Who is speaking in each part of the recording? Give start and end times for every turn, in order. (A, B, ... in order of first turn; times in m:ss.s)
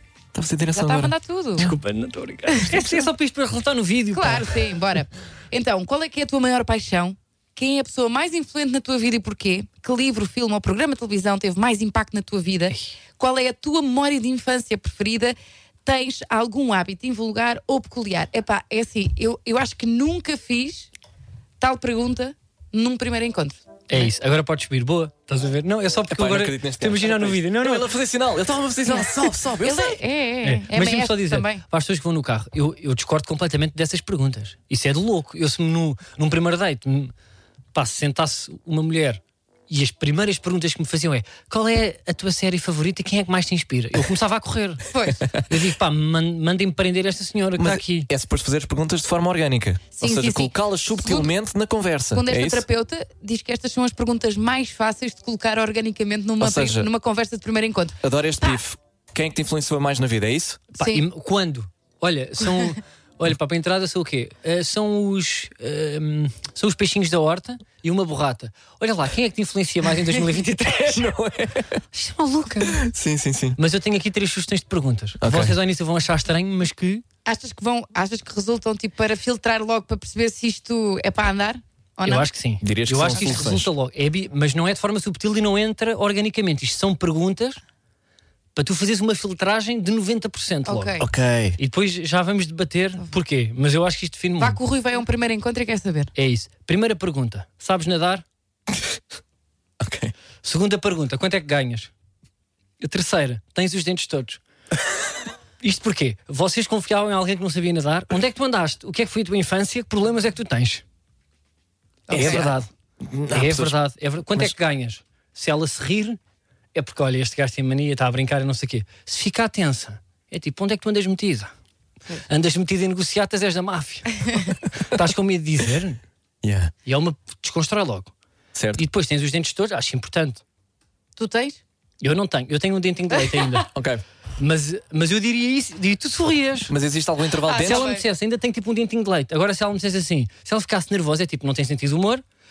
0:00.3-0:01.1 A
0:00.7-0:01.7 B
0:01.6-0:04.5 C
0:02.5-0:03.0 B
0:04.1-0:20.9 B
0:21.6-0:24.1 B
0:23.9-0:27.8 C
0:26.1-0:30.0 A
0:28.8-0:31.6 B
0:30.4-0:37.1 C
0:37.7-0:48.1 C
0:44.9-0:45.2 B
0:47.6-0:52.6 A
0:50.0-0:51.3 B
0:52.1-0:58.6 B
0:56.4-0:56.9 A
0:58.0-1:00.6 A
1:00.8-1:11.1 C
1:00.8-1:01.0 B
1:10.8-1:11.8 A
1:11.9-1:12.8 C
1:12.7-1:13.6 A
1:13.6-1:17.0 C
1:15.2-1:15.6 A
1:17.2-1:22.3 B
1:22.0-1:27.6 C
1:22.6-1:23.7 A
1:28.5-1:31.0 C
1:30.6-1:31.1 B
1:31.0-1:31.6 A
1:31.6-1:34.6 C
1:34.4-1:36.1 B
1:36.2-1:38.2 C
1:39.8-1:40.1 A
1:40.4-1:41.9 C
1:42.8-1:44.4 C
1:45.6-1:50.8 C
1:52.1-1:52.5 B
1:52.1-1:52.7 C
1:52.1-1:52.5 A
1:53.0-1:53.7 A
1:53.3-1:56.2 C
1:56.7-2:01.5 C
2:02.3-2:06.0 C
2:06.4-2:06.7 A
2:06.8-2:08.1 C
2:08.5-2:08.8 A
2:08.8-2:10.4 C
2:11.2-2:11.6 B
2:12.0-2:13.7 C
2:13.7-2:14.0 A
2:14.4-2:16.7 C
2:16.7-2:17.9 A
2:17.4-2:18.0 B
2:17.6-2:22.2 C